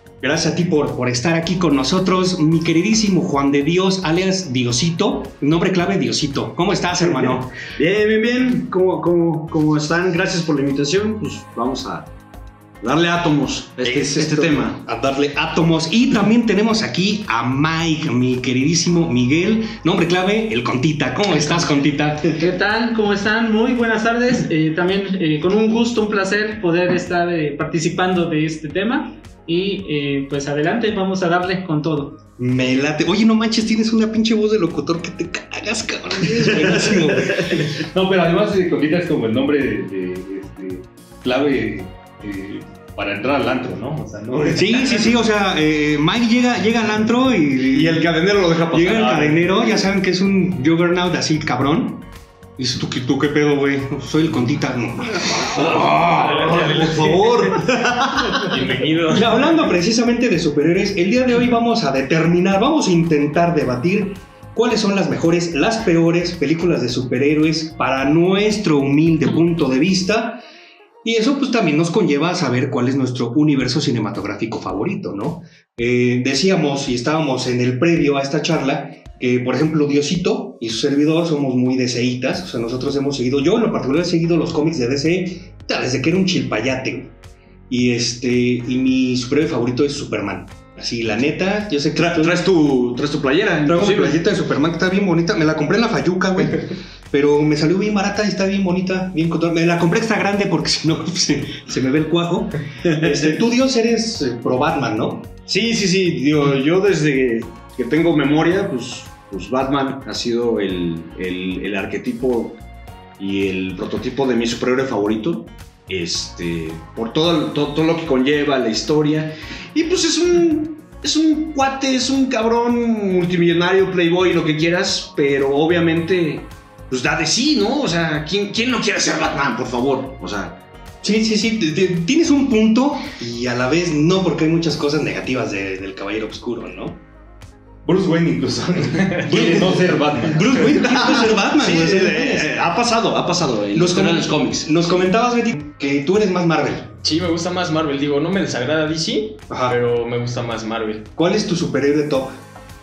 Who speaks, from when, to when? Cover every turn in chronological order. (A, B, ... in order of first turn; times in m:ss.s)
0:00.2-0:07.6 A
0:07.8-0:12.1 B
0:12.8-0:14.8 B
0:13.8-0:22.4 A
0:22.2-0:32.2 C
0:32.4-0:37.7 A
0:36.2-0:37.7 B
0:37.8-0:45.2 D
0:44.5-0:48.0 A
0:47.7-0:49.5 B
0:48.7-0:56.8 A
0:55.6-0:58.4 B
0:56.0-0:57.6 E
0:58.3-0:59.3 E
0:59.1-1:10.4 A
1:11.0-1:27.1 A
1:27.7-1:32.4 A
1:31.9-1:34.2 B
1:33.6-1:45.3 A
1:42.8-1:43.4 B
1:45.5-1:52.6 B
1:53.2-2:10.6 B
2:11.0-2:17.0 A
2:17.8-2:20.8 D
2:19.2-2:22.5 A
2:20.7-2:24.7 B
2:23.7-2:26.9 A
2:27.0-2:31.1 E
2:29.5-2:29.8 A
2:31.1-2:32.4 A